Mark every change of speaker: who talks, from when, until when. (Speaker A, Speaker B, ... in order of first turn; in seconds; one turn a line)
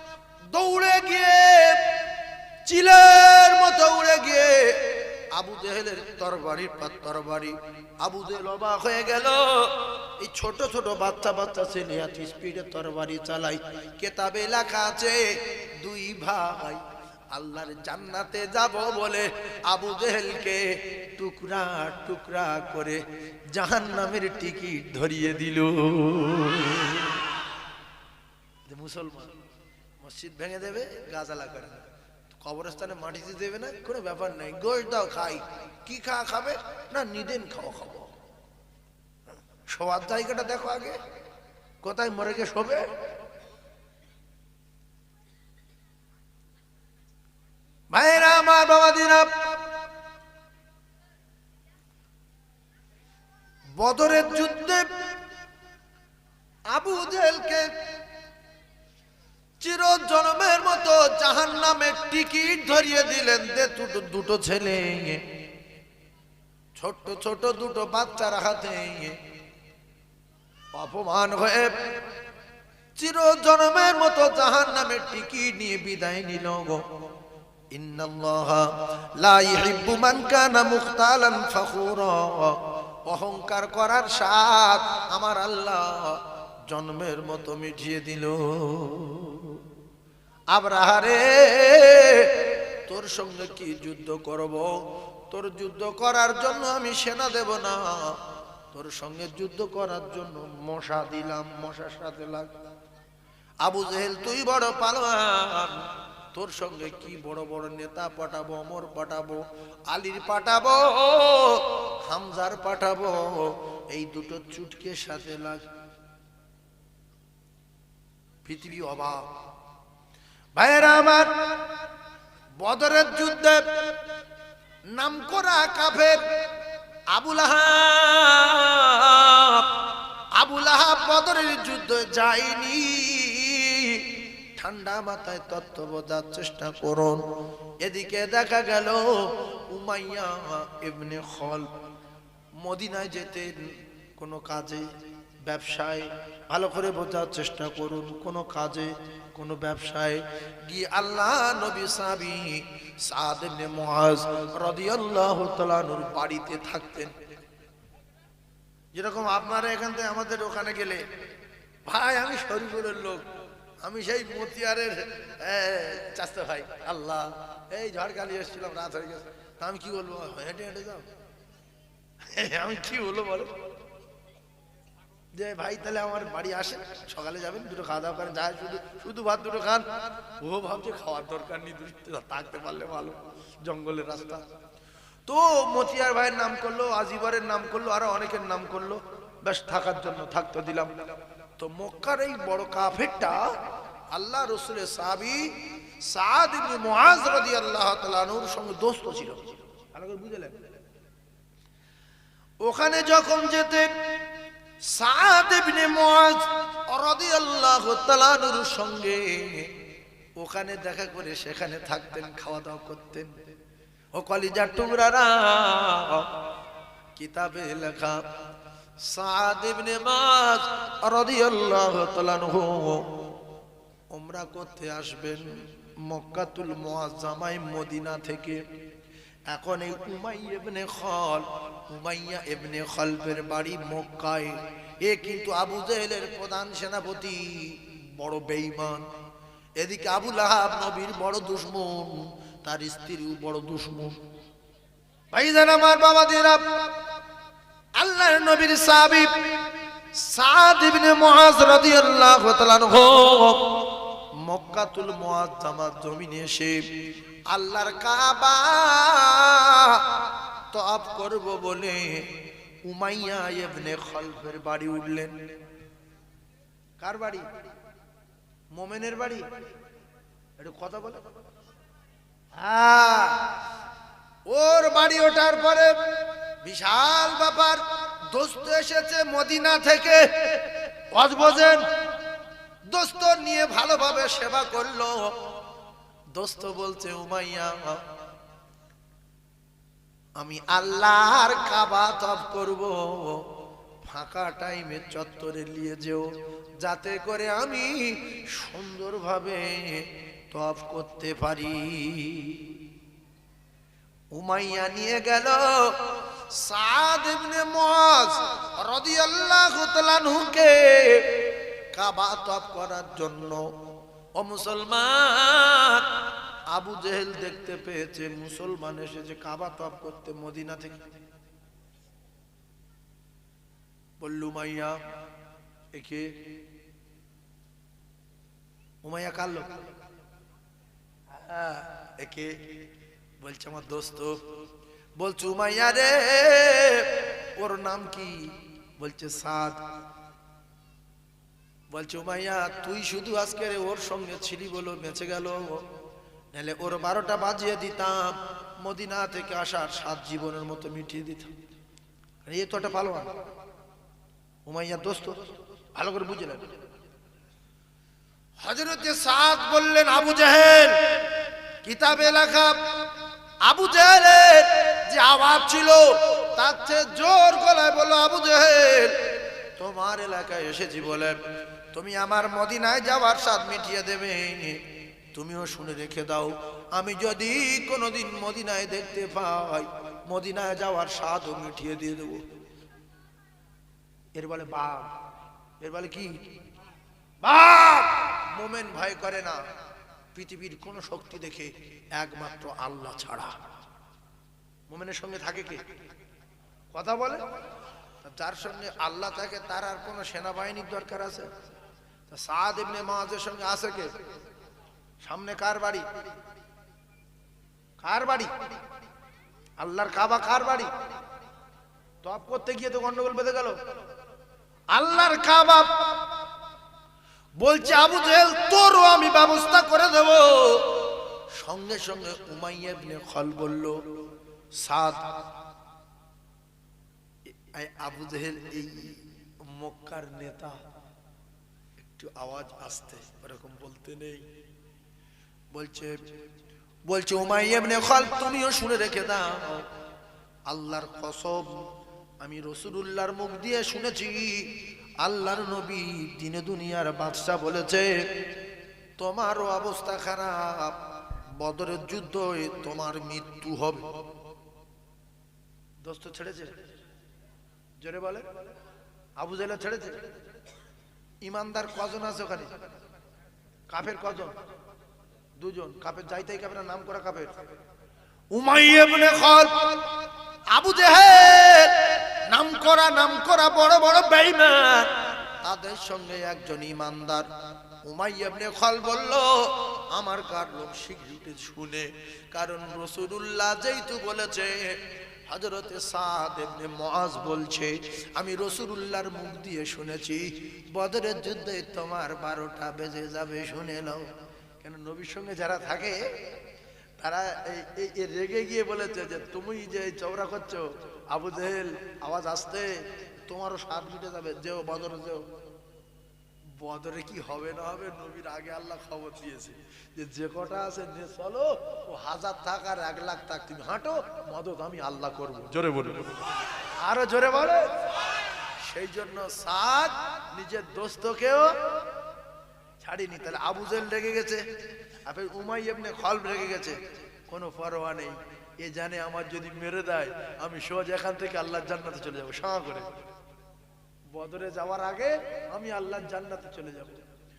Speaker A: 0.5-1.9
Speaker A: 2.6-15.2
Speaker A: 15.8-27.2
Speaker A: 28.6-29.3
Speaker A: 30.0-38.1
Speaker A: 39.7-41.0
Speaker A: 41.8-42.9
Speaker A: 47.9-49.3
Speaker A: 53.8-54.9
Speaker A: 56.7-57.7
Speaker A: 59.6-65.2
Speaker A: 66.8-69.2
Speaker A: 70.8-71.7
Speaker A: 73.0-76.8
Speaker A: 77.7-89.6
Speaker A: 90.5-94.7
Speaker A: 95.3-98.2
Speaker A: 98.7-102.5
Speaker A: 103.6-115.6
Speaker A: 118.4-119.2
Speaker A: 120.5-121.3
Speaker A: 122.6-124.0
Speaker A: 124.9-126.2
Speaker A: 127.1-129.7
Speaker A: 130.3-137.2
Speaker A: 137.8-141.7
Speaker A: 142.6-143.5
Speaker A: 144.2-144.8
Speaker A: 145.4-157.1
Speaker A: 158.9-161.0
Speaker A: 161.8-163.2
Speaker A: 163.8-171.1
Speaker A: 172.3-173.5
Speaker A: 175.3-179.8
Speaker A: 180.4-184.4
Speaker A: 185.3-190.9
Speaker A: 191.6-193.5
Speaker A: 194.1-200.6
Speaker A: 202.6-203.9
Speaker A: 204.9-209.7
Speaker A: 210.4-213.3
Speaker A: 214.1-216.3
Speaker A: 217.2-218.2
Speaker A: 219.0-223.1
Speaker A: 224.1-225.5
Speaker A: 226.0-228.6
Speaker A: 229.5-239.0
Speaker A: 239.8-244.2
Speaker A: 245.3-246.6
Speaker A: 248.0-249.4
Speaker A: 250.1-256.8
Speaker A: 257.5-260.0
Speaker A: 260.7-262.3
Speaker A: 262.8-265.3
Speaker A: 267.0-267.4
Speaker A: 268.7-269.4
Speaker A: 270.6-271.2
Speaker A: 272.6-273.5
Speaker A: 274.5-275.9
Speaker A: 276.6-281.8
Speaker A: 282.9-285.3
Speaker A: 286.3-288.0
Speaker A: 290.4-293.4
Speaker A: 294.0-296.3
Speaker A: 296.8-302.7
Speaker A: 304.3-313.7
Speaker A: 314.4-316.1
Speaker A: 316.7-321.0
Speaker A: 324.2-325.0
Speaker A: 325.9-326.3
Speaker A: 329.0-329.7
Speaker A: 331.3-332.7
Speaker A: 333.4-334.4
Speaker A: 335.2-339.8
Speaker A: 341.9-345.8
Speaker A: 346.5-351.5
Speaker A: 352.4-353.3
Speaker A: 354.6-356.6
Speaker A: 358.6-361.3
Speaker A: 361.8-362.8
Speaker A: 363.6-371.4
Speaker A: 371.9-374.8
Speaker A: 375.3-382.4
Speaker A: 384.3-385.1
Speaker A: 385.8-386.4
Speaker A: 387.4-389.6
Speaker A: 390.3-393.6
Speaker A: 394.9-395.8
Speaker A: 396.9-397.4
Speaker A: 398.2-401.5
Speaker A: 402.3-404.1
Speaker A: 405.2-406.1
Speaker A: 408.0-408.5
Speaker A: 409.8-410.9
Speaker A: 412.2-413.8
Speaker A: 414.9-416.1
Speaker A: 417.6-424.0
Speaker A: 424.8-425.3
Speaker A: 427.5-430.8
Speaker A: 432.0-434.4
Speaker A: 435.7-436.1
Speaker A: 437.1-439.9
Speaker A: 440.7-441.9
Speaker A: 442.4-448.2
Speaker A: 449.2-454.1
Speaker A: 456.0-456.7
Speaker A: 458.0-458.4
Speaker A: 459.4-460.2
Speaker A: 461.4-462.7
Speaker A: 463.9-464.6
Speaker A: 465.6-467.6
Speaker A: 468.5-470.1
Speaker A: 470.7-477.5
Speaker A: 478.0-494.3
Speaker A: 494.8-496.3
Speaker A: 497.2-505.4
Speaker A: 506.8-516.4
Speaker A: 517.0-517.9
Speaker A: 518.8-521.8
Speaker A: 523.0-524.6
Speaker A: 525.2-533.1
Speaker A: 534.3-537.2